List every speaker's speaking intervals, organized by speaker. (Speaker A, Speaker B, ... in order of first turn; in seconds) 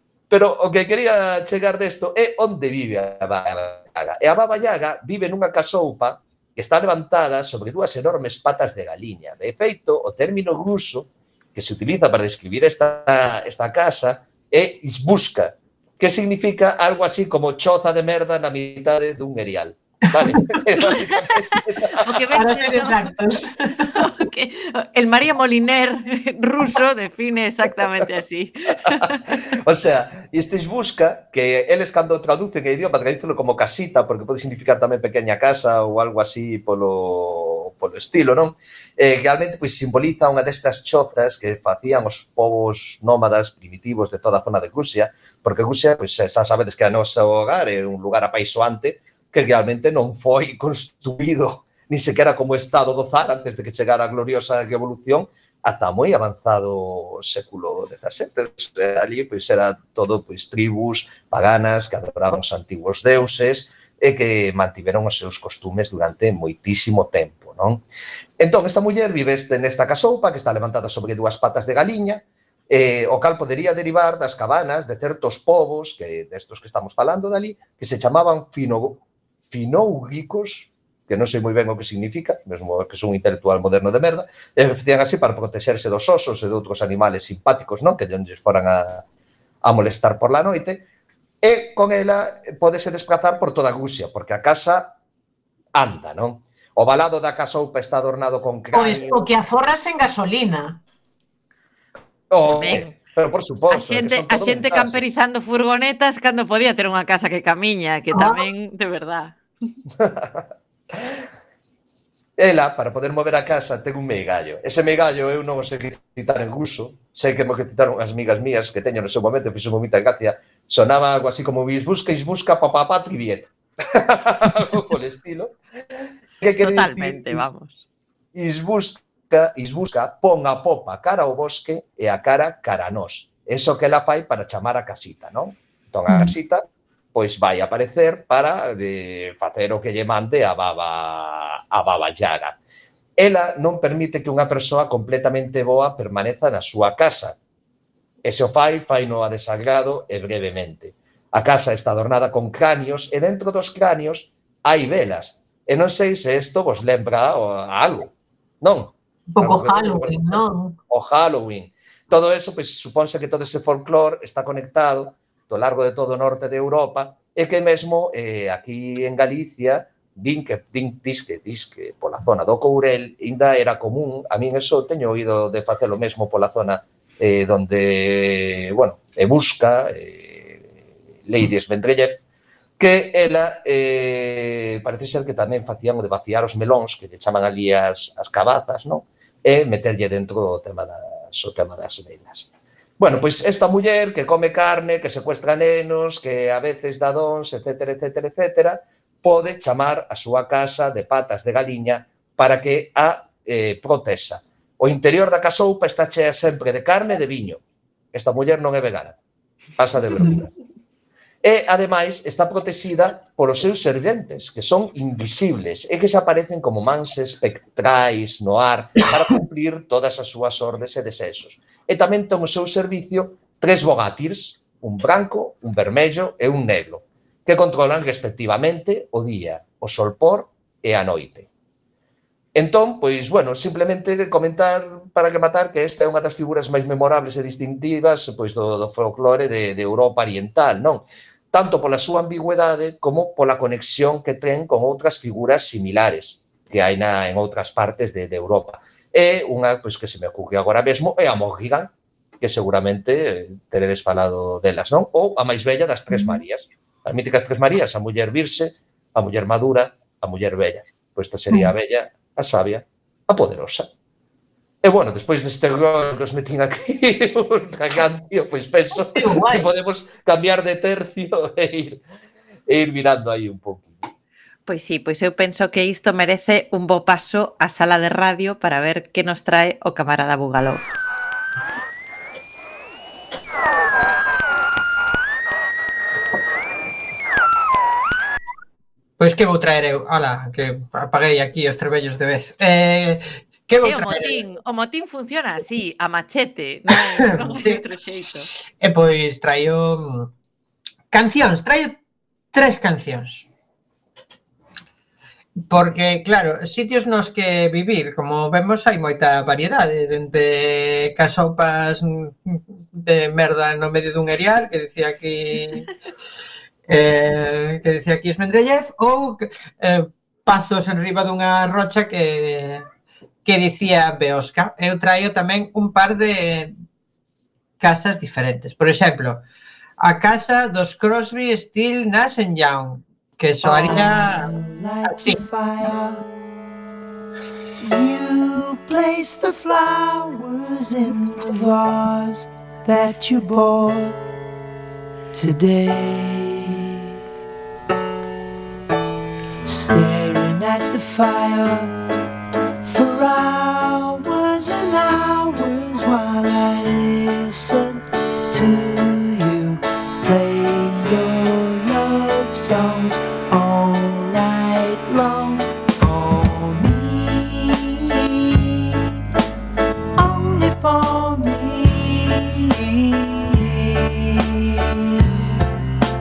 Speaker A: 0.3-22.2, 29.5-67.8, 68.4-89.0, 89.6-90.8, 91.4-95.0, 95.8-99.3, 102.3-105.0, 110.0-111.2, 112.4-125.6, 126.4-127.5, 128.3-136.6, 137.2-142.6, 143.2-147.4, 148.2-180.7, 181.2-182.2, 182.8-207.6, 208.1-209.2, 209.8-210.5, 211.4-231.5, 232.6-263.9, 264.8-272.0, 272.7-274.0
Speaker B: 20.8-23.1, 23.9-29.4, 102.5-102.9, 103.7-109.4, 126.6-127.8, 274.7-280.9, 293.8-298.5
Speaker C: 22.3-24.0, 98.7-100.8, 108.1-108.4, 159.3-160.8, 256.1-256.4, 269.1-269.7
Speaker D: 289.2-294.3, 296.9-297.8, 298.8-300.3, 301.1-302.0, 302.5-303.5, 305.7-315.9, 316.9-322.9, 323.4-326.7, 327.8-329.4, 330.0-334.5, 335.1-335.4
Speaker E: 333.7-336.3, 337.8-344.2, 345.3-347.0, 349.6-351.9, 352.8-368.8, 370.2-375.3